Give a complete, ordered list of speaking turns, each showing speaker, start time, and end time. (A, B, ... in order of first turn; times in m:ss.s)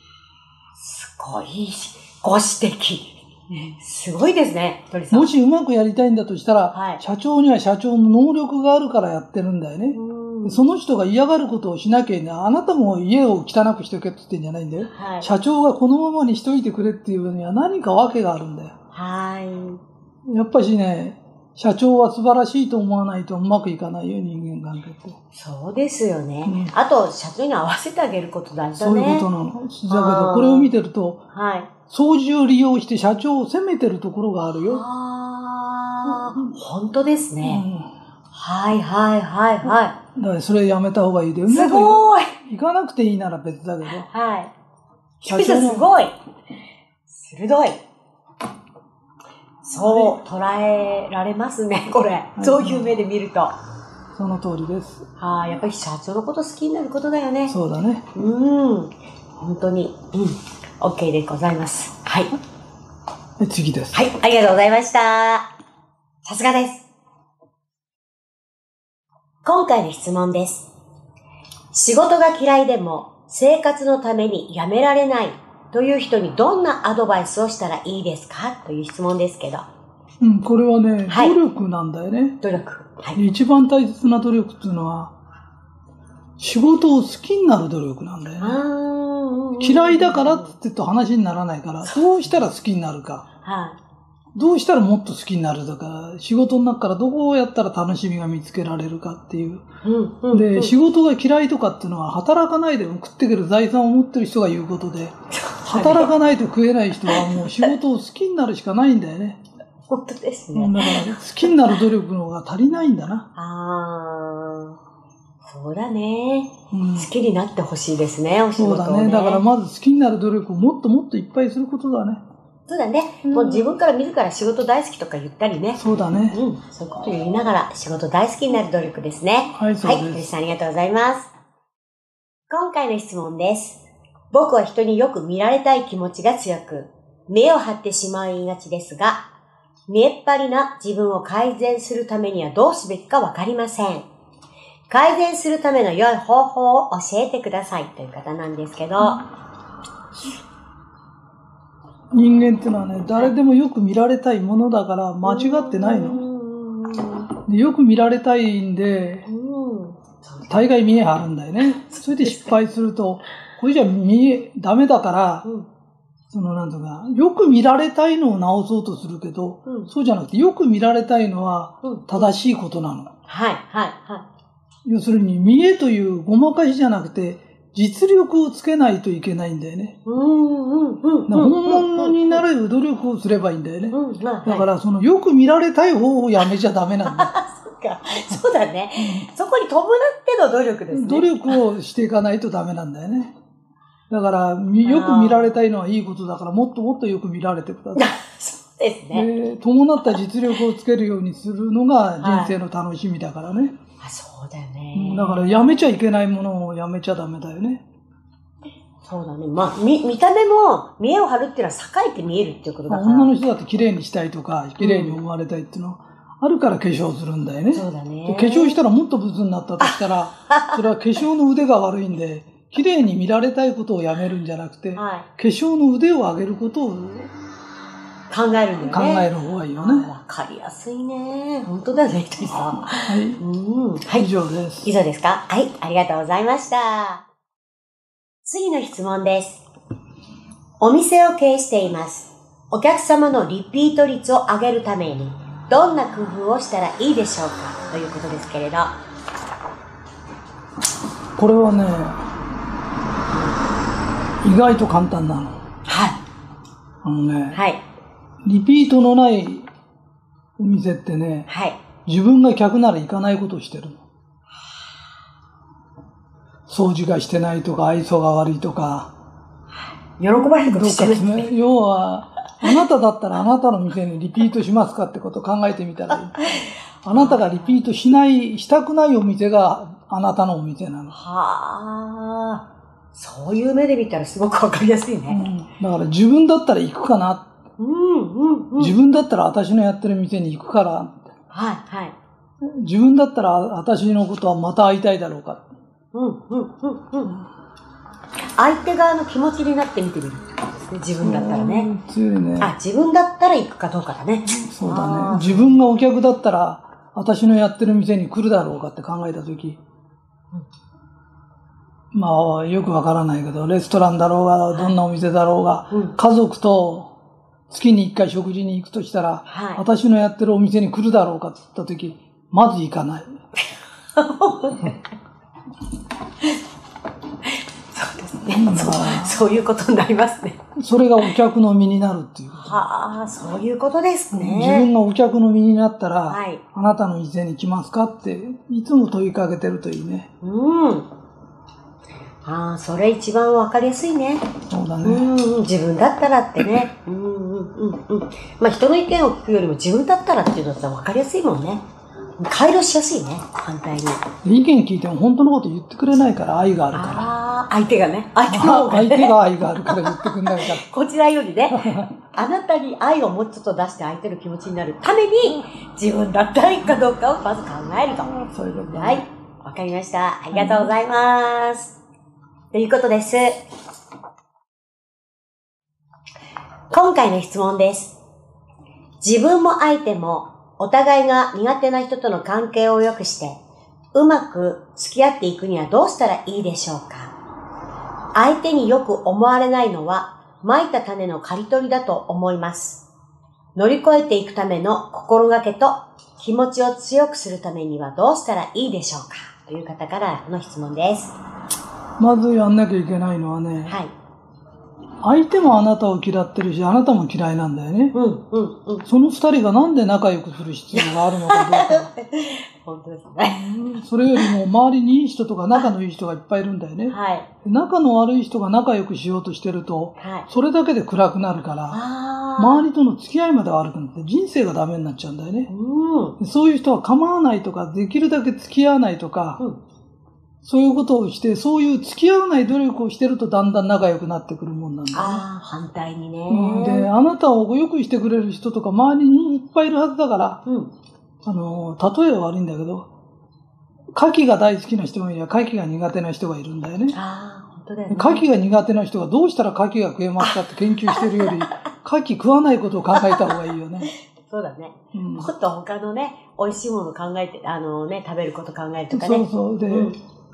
0:00.8-0:05.3 A
0:05.1-0:18.7 B
0:06.7-0:07.0 A
0:09.9-0:10.6 A
0:14.9-0:15.3 A
0:18.9-0:19.8 A
0:20.2-0:25.2 B
0:25.4-0:29.3 A
0:26.4-0:26.7 B
0:28.8-0:31.2 B
0:29.9-0:30.7 A
0:31.3-0:31.7 A
0:31.9-0:34.8 B
0:34.6-0:37.6 A
0:36.1-0:36.4 B
0:37.4-0:37.9 B
0:38.3-0:40.0 A
0:40.2-0:44.1 B
0:41.5-0:42.4 A
0:44.0-0:44.5 A
0:45.2-0:45.9 B
0:45.3-0:46.2 A
0:47.1-0:47.8 A
0:49.6-0:53.5 A
0:49.8-0:50.2 B
0:52.4-0:53.0 B
0:54.2-0:55.1 B
0:55.2-0:57.6 A
0:57.5-0:58.0 B
0:58.1-1:02.4 A
1:03.4-1:04.0 B
1:03.9-1:05.5 A
1:06.2-1:06.9 A
1:09.4-1:10.7 A
1:11.7-1:19.7 A
1:20.2-1:22.4 B
1:21.1-1:21.4 A
1:22.4-1:23.2 A
1:23.2-1:25.1 B
1:26.4-1:28.6 B
1:28.4-1:30.5 A
1:29.6-1:33.3 B
1:33.4-1:33.8 A
1:34.4-1:39.6 B
1:39.8-1:40.7 A
1:40.3-1:49.4 B
1:45.3-1:46.1 A
1:47.1-1:47.7 A
1:49.9-1:51.5 A
1:50.6-1:53.3 B
1:53.4-1:54.8 A
1:55.4-1:59.4 A
1:56.7-1:57.1 B
1:58.6-2:02.2 B
2:02.7-2:11.3 A
2:03.2-2:03.7 B
2:05.8-2:06.4 B
2:09.5-2:10.3 B
2:12.5-2:19.3 A
2:19.9-2:24.1 A
2:24.9-2:29.2 A
2:32.1-2:36.2 B
2:35.2-2:37.3 A
2:37.5-2:39.3 B
2:39.3-2:40.7 A
2:40.5-2:45.4 B
2:41.6-2:42.6 A
2:46.3-2:53.1 B
2:51.8-2:52.3 A
2:53.3-2:54.3 A
2:54.8-3:00.0 B
3:00.1-3:02.4 A
3:01.3-3:07.3 B
3:03.9-3:04.7 A
3:07.1-3:11.6 A
3:09.0-3:09.3 B
3:10.9-3:13.3 B
3:14.1-3:18.0 B
3:14.8-3:15.6 A
3:18.0-3:19.3 A
3:19.1-3:23.8 B
3:22.2-3:22.5 A
3:24.0-3:25.7 A
3:25.0-3:27.8 B
3:29.0-3:33.3 A
3:32.9-3:47.3 B
3:34.8-3:35.2 A
3:37.7-3:38.8 A
3:40.5-3:40.8 A
3:45.0-3:45.3 A
3:48.3-3:54.3 A
3:48.8-3:50.1 B
3:52.9-3:53.4 B
3:54.1-3:54.9 B
3:54.8-3:57.2 A
3:58.4-3:59.6 A
4:00.8-4:09.0 A
4:11.4-4:12.2 B
4:14.4-4:15.6 B
4:15.9-4:16.2 A
4:17.0-4:17.6 B
4:17.5-4:17.8 A
4:18.4-4:19.7 B
4:20.6-4:21.5 B
4:21.5-4:21.8 A
4:22.0-4:24.0 B
4:26.7-4:29.1 B
4:30.2-4:31.5 A
4:30.4-4:41.2 B
4:36.5-4:37.8 A
4:41.1-4:45.5 A
4:45.3-4:47.5 B
4:47.8-4:49.0 A
4:48.8-4:51.3 B
4:51.5-4:52.2 A
4:52.6-4:55.7 B
4:56.1-4:57.4 A
4:58.6-5:01.9 A
5:01.2-5:02.7 B
5:02.6-5:05.8 A
5:04.6-5:09.8 B
5:12.1-5:17.1 B
5:14.7-5:15.0 A
5:15.9-5:16.2 A
5:17.7-5:23.3 B
5:19.5-5:19.8 A
5:24.2-5:25.0 A
5:27.4-5:30.6 A
5:28.5-5:29.4 B
5:30.8-5:32.8 B
5:32.6-5:34.9 A
5:34.3-5:40.3 B
5:36.3-5:36.6 A
5:40.4-5:41.1 A
5:42.4-5:44.5 A
5:44.7-5:45.3 B
5:45.0-5:51.9 A
5:52.4-5:54.2 A
5:54.4-5:57.3 B
5:56.9-5:59.4 A
5:58.5-6:00.8 B
5:59.9-6:08.3 A
6:01.7-6:02.1 B
6:08.2-6:09.2 B
6:08.9-6:12.0 A
6:10.5-6:10.9 B
6:12.7-6:13.6 A
6:16.9-6:18.2 A
6:19.2-6:23.6 A
6:24.1-6:27.4 A
6:28.3-6:33.0 A
6:33.8-6:41.4 A
6:42.2-6:44.0 B
6:43.9-6:44.1 A
6:45.2-6:48.2 B
6:48.1-6:49.1 A
6:49.1-6:52.1 B
6:50.9-6:53.7 A
6:53.4-7:02.0 B
6:57.1-6:57.5 A
7:00.2-7:00.5 A
7:01.9-7:02.9 A
7:02.6-7:05.7 B
7:05.7-7:06.4 A
7:06.4-7:09.6 B
7:10.6-7:15.4 B
7:15.1-7:17.1 A
7:16.5-7:20.6 B
7:20.7-7:20.9 A
7:21.4-7:23.1 B
7:24.1-7:27.2 B
7:27.1-7:28.5 A
7:28.1-7:34.1 B
7:31.1-7:31.8 A
7:33.2-7:33.5 A
7:34.4-7:40.2 A
7:35.1-7:35.5 B
7:39.1-7:40.2 B